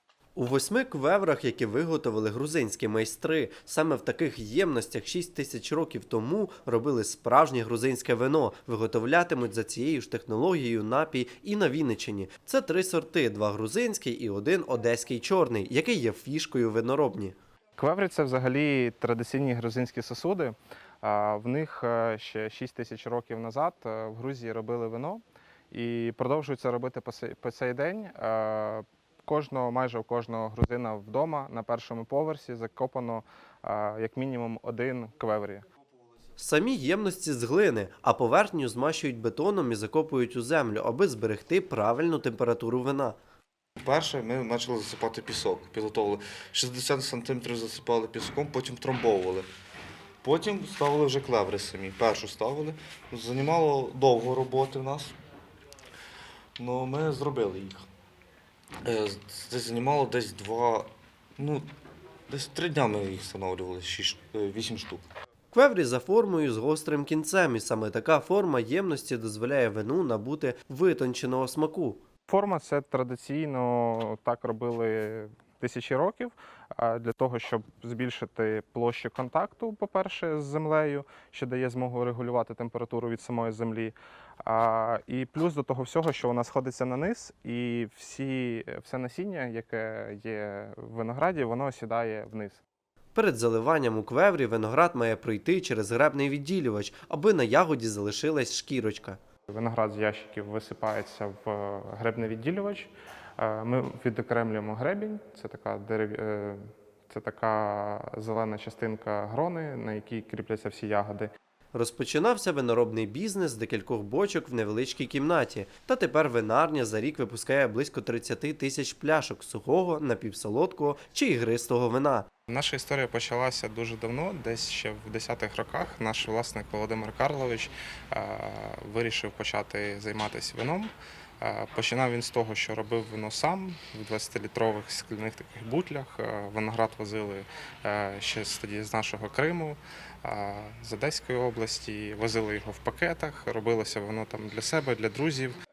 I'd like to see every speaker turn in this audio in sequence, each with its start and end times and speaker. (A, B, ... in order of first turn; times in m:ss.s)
0:00.4-0:17.4 A
0:17.8-0:35.6 B
0:36.4-0:43.2 A
0:43.8-0:49.4 C
0:50.2-0:55.1 C
0:56.6-0:57.9 C
0:58.8-1:01.6 C
1:02.3-1:05.0 C
1:05.5-1:12.0 A
1:12.3-1:32.6 B
1:33.1-1:39.2 A
1:39.5-1:51.3 B
1:51.7-2:02.2 A
2:02.5-2:25.6 B